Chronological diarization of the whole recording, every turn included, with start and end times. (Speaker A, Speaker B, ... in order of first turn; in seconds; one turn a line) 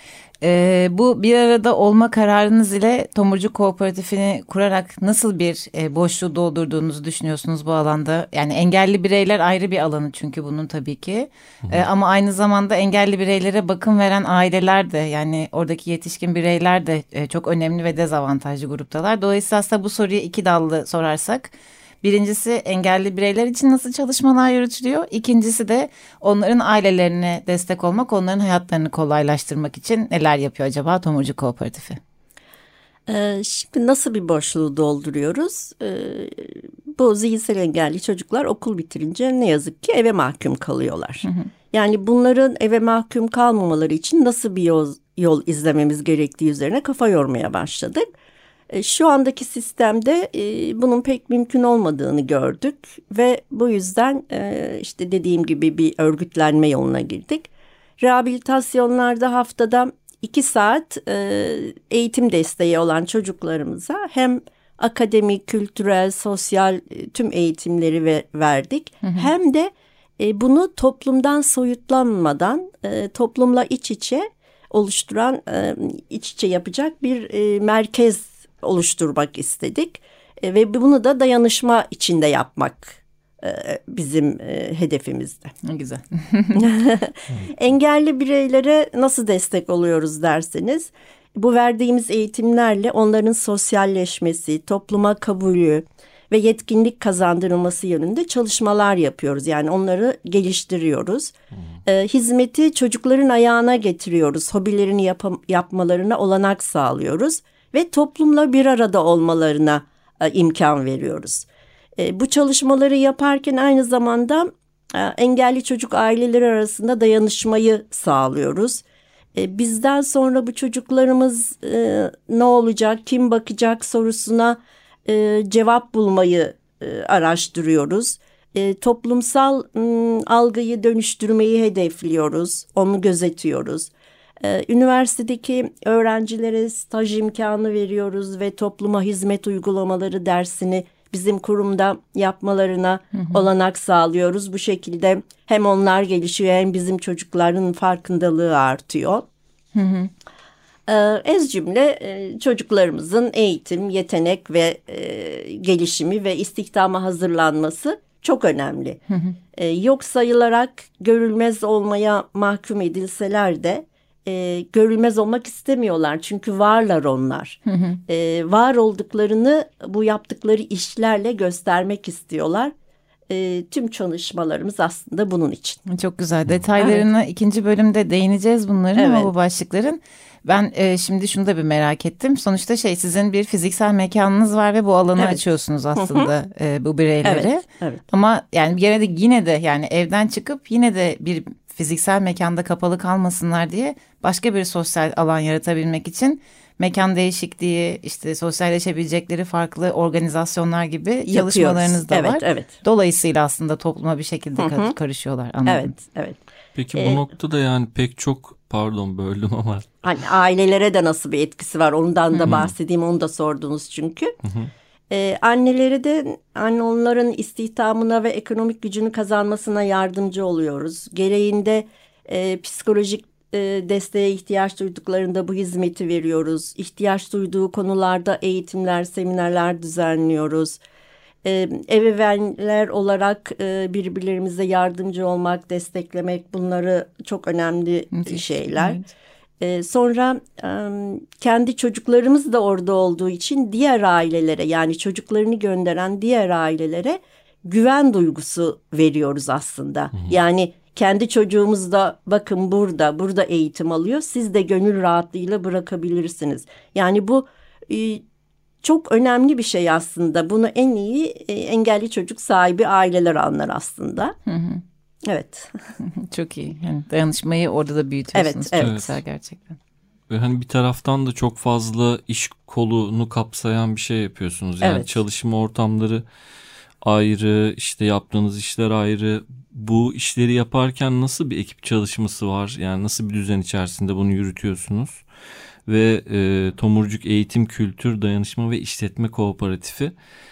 Speaker A: 0.4-32.0
Speaker B: 33.1-48.0
Speaker B: 48.7-57.5
Speaker B: 58.0-85.5
Speaker A: 69.0-69.3
Speaker A: 85.6-86.7
Speaker B: 86.5-101.3
Speaker B: 101.8-118.8
Speaker B: 119.3-149.2
Speaker A: 143.1-143.4
Speaker A: 149.7-150.1
Speaker B: 150.9-159.0
Speaker A: 159.1-159.3
Speaker B: 159.5-172.7
Speaker A: 167.7-168.0
Speaker B: 173.3-175.8
Speaker A: 175.8-205.9
Speaker B: 176.8-177.1
Speaker B: 178.9-179.3
Speaker B: 185.2-185.4
Speaker B: 185.9-186.3
Speaker B: 187.2-188.0
Speaker B: 201.2-202.7
Speaker B: 204.6-204.9
Speaker B: 205.7-206.4
Speaker C: 206.8-209.8
Speaker B: 206.9-207.2
Speaker B: 210.0-214.3
Speaker A: 212.3-212.6
Speaker C: 212.5-212.7
Speaker C: 214.4-214.7
Speaker B: 215.1-230.8
Speaker B: 231.4-239.0
Speaker A: 238.1-239.1
Speaker B: 239.6-258.2
Speaker B: 258.8-264.4
Speaker A: 264.5-264.8
Speaker B: 265.2-265.7
Speaker A: 266.0-269.8
Speaker B: 268.3-268.9
Speaker C: 268.8-269.2
Speaker C: 270.3-276.2
Speaker B: 274.8-275.2
Speaker C: 277.0-285.2
Speaker C: 285.9-290.1